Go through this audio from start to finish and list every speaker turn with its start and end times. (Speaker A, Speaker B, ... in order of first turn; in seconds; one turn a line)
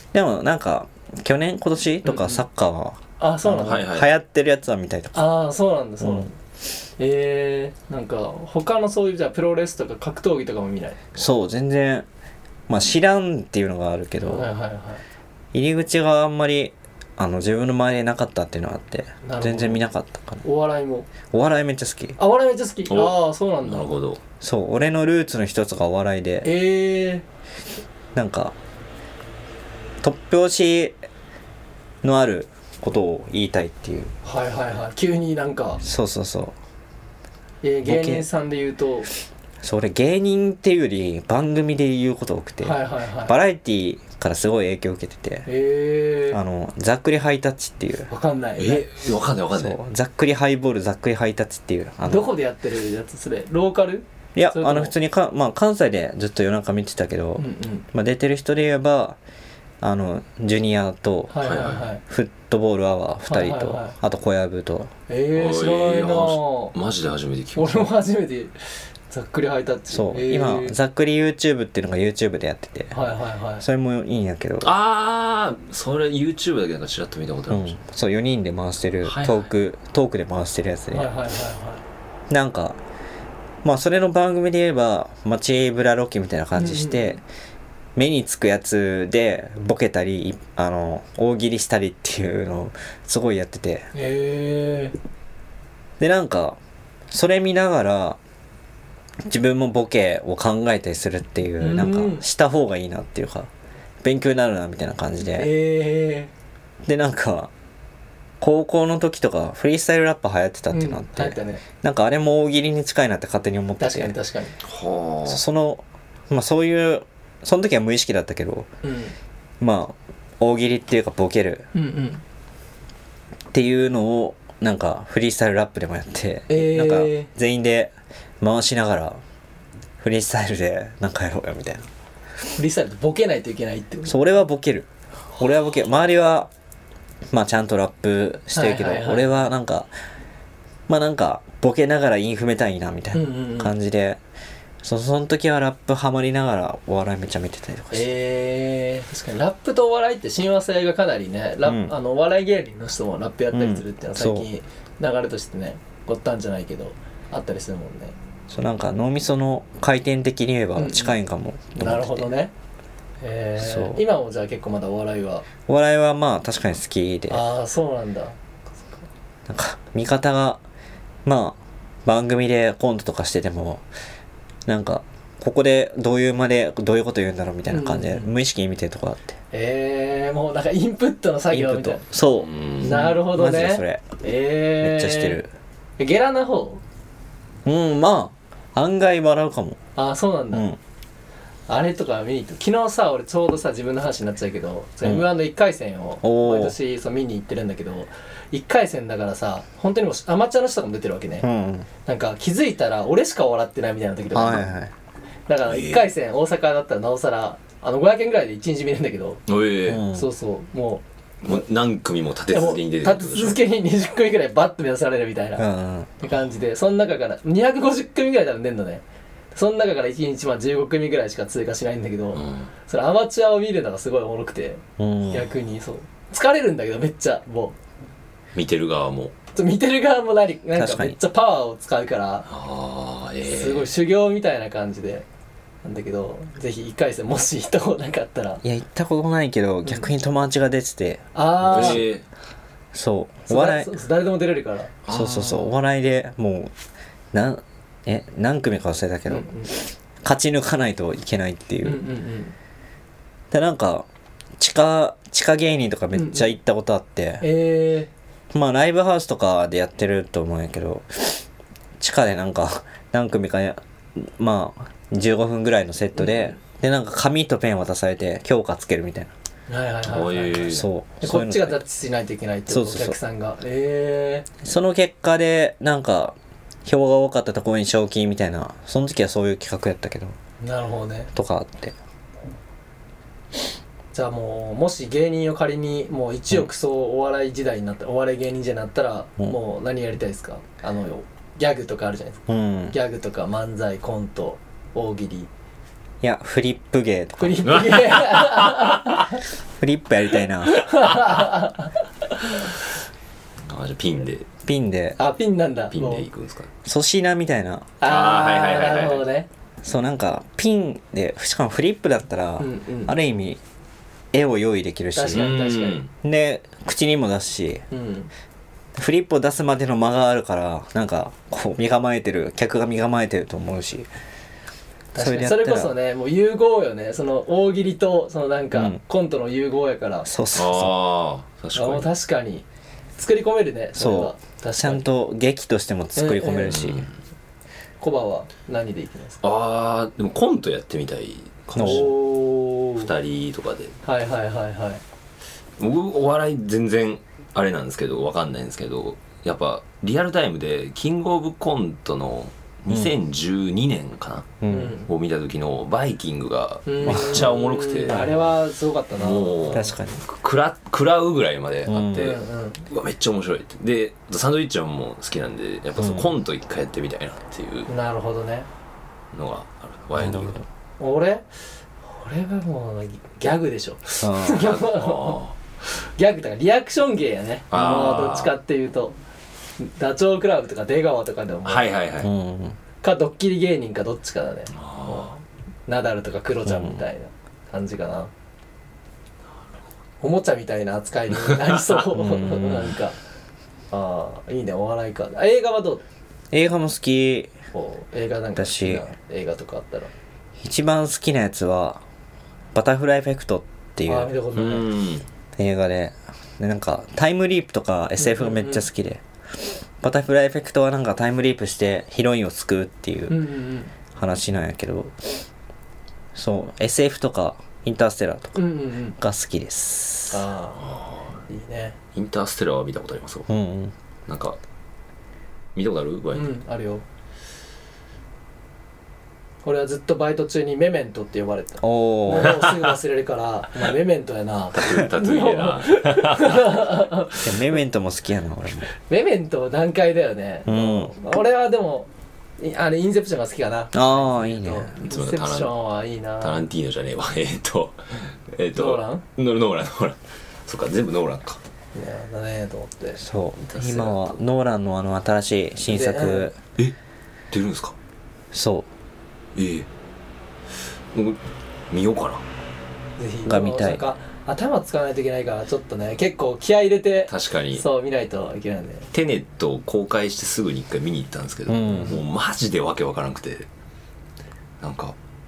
Speaker A: 0.1-5.3
Speaker B: 2.0-2.4
Speaker B: 3.2-3.9
Speaker C: 3.5-4.1
Speaker B: 5.1-6.3
Speaker A: 6.0-6.3
Speaker B: 7.0-11.2
Speaker A: 11.2-12.1
Speaker A: 12.7-14.5
Speaker B: 14.2-15.0
Speaker A: 15.5-20.4
Speaker B: 19.2-19.8
Speaker B: 20.4-21.1
Speaker A: 21.3-22.2
Speaker B: 22.2-23.9
Speaker C: 22.9-24.2
Speaker A: 24.4-26.5
Speaker B: 26.4-27.3
Speaker A: 28.1-28.6
Speaker A: 30.0-31.0
Speaker A: 32.0-34.1
Speaker B: 34.2-35.8
Speaker A: 35.8-36.5
Speaker B: 37.6-39.1
Speaker A: 37.9-38.3
Speaker A: 39.6-45.5
Speaker B: 42.6-43.3
Speaker B: 45.5-46.4
Speaker A: 46.3-48.1
Speaker B: 48.1-48.9
Speaker C: 48.6-49.8
Speaker A: 49.5-52.3
Speaker B: 52.0-54.9
Speaker A: 54.4-59.2
Speaker B: 57.4-57.9
Speaker A: 59.8-61.4
Speaker B: 61.3-62.0
Speaker C: 61.4-61.9
Speaker A: 62.0-64.9
Speaker B: 63.3-64.0
Speaker B: 65.1-66.7
Speaker C: 65.3-67.9
Speaker B: 67.6-68.5
Speaker B: 69.1-70.8
Speaker A: 69.9-73.0
Speaker B: 72.9-73.7
Speaker A: 73.6-74.7
Speaker C: 74.6-77.8
Speaker A: 77.5-81.1
Speaker C: 79.0-79.5
Speaker B: 80.9-81.8
Speaker A: 82.3-82.8
Speaker A: 83.6-87.2
Speaker B: 86.5-87.2
Speaker A: 88.0-93.9
Speaker B: 93.9-95.0
Speaker A: 96.0-96.6
Speaker A: 97.1-98.2
Speaker A: 99.2-103.5
Speaker B: 101.6-102.2
Speaker A: 104.0-105.5
Speaker B: 105.2-106.3
Speaker A: 106.8-107.5
Speaker A: 108.4-114.2
Speaker B: 110.7-111.6
Speaker B: 113.8-114.6
Speaker C: 114.6-115.4
Speaker A: 115.3-118.7
Speaker B: 118.8-119.2
Speaker A: 119.6-121.7
Speaker B: 121.7-122.2
Speaker A: 123.5-129.2
Speaker B: 126.5-127.3
Speaker A: 130.0-131.9
Speaker B: 132.6-134.2
Speaker A: 134.1-136.5
Speaker A: 137.3-139.9
Speaker B: 138.5-139.3
Speaker A: 140.9-144.2
Speaker B: 143.1-143.7
Speaker A: 144.8-148.1
Speaker B: 147.9-158.2
Speaker A: 151.7-151.9
Speaker A: 153.5-154.5
Speaker A: 158.5-162.3
Speaker B: 160.8-161.2
Speaker B: 161.8-162.5
Speaker B: 163.2-165.5
Speaker A: 163.6-164.0
Speaker A: 165.7-167.4
Speaker B: 167.3-169.0
Speaker A: 169.5-170.6
Speaker A: 171.2-173.8
Speaker A: 174.7-179.4
Speaker B: 177.7-178.3
Speaker B: 179.5-182.0
Speaker A: 181.5-184.0
Speaker C: 182.4-183.1
Speaker B: 182.8-185.4
Speaker A: 184.8-185.5
Speaker B: 186.0-186.8
Speaker A: 187.7-189.8
Speaker B: 190.0-190.7
Speaker A: 190.5-190.8
Speaker B: 191.7-201.5
Speaker A: 196.2-196.8
Speaker A: 201.4-201.9
Speaker B: 202.1-204.7
Speaker A: 204.3-204.9
Speaker B: 205.5-209.4
Speaker C: 205.7-206.1
Speaker C: 209.5-210.1
Speaker A: 209.9-210.3
Speaker B: 210.1-211.0
Speaker C: 211.4-213.6
Speaker B: 212.5-215.7
Speaker A: 215.6-216.2
Speaker B: 216.2-219.0
Speaker B: 219.5-227.8
Speaker C: 222.3-222.7
Speaker A: 225.0-225.5
Speaker C: 228.6-229.3
Speaker B: 229.6-232.5
Speaker A: 230.8-231.2
Speaker C: 232.5-233.9
Speaker B: 233.5-235.3
Speaker B: 235.8-238.6
Speaker A: 238.6-242.0
Speaker B: 241.3-242.0
Speaker C: 241.7-242.2
Speaker A: 242.9-243.9
Speaker B: 243.5-245.0
Speaker C: 245.1-245.7
Speaker A: 245.1-246.7
Speaker A: 247.3-252.0
Speaker B: 249.3-249.7
Speaker B: 251.8-252.6
Speaker A: 253.5-254.1
Speaker A: 254.6-257.4
Speaker B: 256.1-256.5
Speaker B: 257.4-258.1
Speaker A: 258.5-261.4
Speaker A: 262.0-269.3
Speaker B: 266.2-266.5
Speaker B: 269.7-274.5
Speaker C: 270.1-270.9
Speaker A: 270.7-271.8
Speaker A: 272.7-273.2
Speaker A: 274.6-280.4
Speaker B: 280.6-281.3
Speaker A: 281.3-282.0
Speaker B: 284.1-295.5
Speaker A: 292.5-292.9
Speaker A: 296.2-297.8
Speaker B: 297.4-299.4
Speaker C: 297.7-299.1
Speaker A: 299.8-301.2
Speaker B: 300.6-302.7
Speaker C: 303.7-304.5
Speaker A: 304.6-305.2
Speaker B: 305.2-306.3
Speaker C: 305.9-306.7
Speaker A: 306.9-307.9
Speaker B: 308.0-309.5
Speaker C: 308.0-309.2
Speaker A: 309.8-313.6
Speaker B: 312.6-313.1
Speaker A: 314.3-315.6
Speaker B: 315.1-316.0
Speaker C: 315.3-316.1
Speaker A: 316.2-317.9
Speaker B: 317.9-318.3
Speaker A: 318.9-324.1
Speaker B: 325.1-330.3
Speaker A: 325.2-325.9
Speaker A: 328.7-329.0
Speaker A: 330.3-330.9
Speaker C: 330.6-332.1
Speaker B: 331.8-332.6
Speaker B: 333.2-335.1
Speaker A: 334.0-337.1
Speaker B: 336.1-336.8
Speaker C: 336.6-337.1
Speaker B: 338.0-339.4
Speaker C: 339.4-342.2
Speaker A: 341.8-342.1
Speaker B: 341.8-343.1
Speaker C: 343.0-344.0
Speaker B: 344.0-345.0
Speaker C: 345.8-358.4
Speaker A: 354.6-355.0
Speaker B: 354.7-355.1
Speaker B: 356.9-359.9
Speaker A: 357.1-357.6
Speaker A: 358.1-358.3
Speaker C: 359.1-367.9
Speaker A: 359.7-360.2
Speaker A: 361.9-362.4
Speaker B: 362.1-362.9
Speaker A: 366.0-366.3
Speaker B: 367.9-368.7
Speaker C: 369.3-370.6
Speaker A: 370.2-370.7
Speaker B: 371.0-371.5
Speaker B: 372.1-375.4
Speaker A: 374.2-374.7
Speaker C: 374.6-375.6
Speaker B: 376.0-379.2
Speaker C: 377.7-378.6
Speaker B: 379.8-381.9
Speaker C: 381.7-382.3
Speaker A: 382.2-382.8
Speaker B: 383.0-388.3
Speaker C: 384.7-385.3
Speaker A: 386.7-387.0
Speaker B: 390.2-393.2
Speaker A: 392.1-392.9
Speaker B: 393.9-396.0
Speaker A: 396.5-397.5
Speaker B: 397.7-400.1
Speaker A: 398.6-399.0
Speaker A: 400.6-402.0
Speaker A: 402.7-404.3
Speaker B: 404.1-404.9
Speaker C: 404.5-405.3
Speaker A: 405.6-409.2
Speaker B: 408.2-408.9
Speaker A: 410.0-413.4
Speaker B: 413.3-413.9
Speaker A: 414.1-415.4
Speaker A: 416.4-418.6
Speaker B: 418.6-419.2
Speaker A: 419.2-420.4
Speaker B: 420.3-420.9
Speaker C: 420.8-421.3
Speaker B: 421.5-422.0
Speaker C: 422.1-423.5
Speaker A: 423.5-423.9
Speaker C: 424.3-424.6
Speaker C: 425.8-426.5
Speaker B: 426.3-427.0
Speaker B: 429.6-437.4
Speaker A: 431.8-432.6
Speaker C: 434.7-436.9
Speaker A: 437.4-438.9
Speaker B: 439.1-446.6
Speaker A: 440.7-441.1
Speaker A: 443.9-444.9
Speaker C: 445.0-445.8
Speaker C: 446.4-451.6
Speaker B: 448.7-449.2
Speaker B: 451.9-453.2
Speaker A: 453.2-456.6
Speaker C: 453.6-454.4
Speaker B: 455.9-456.5
Speaker C: 457.5-457.9
Speaker A: 458.5-458.9
Speaker C: 459.6-459.9
Speaker C: 461.1-462.4
Speaker B: 463.2-469.1
Speaker A: 463.5-464.0
Speaker C: 467.3-467.8
Speaker C: 469.1-473.7
Speaker A: 471.7-472.2
Speaker B: 471.9-472.1
Speaker C: 474.8-475.2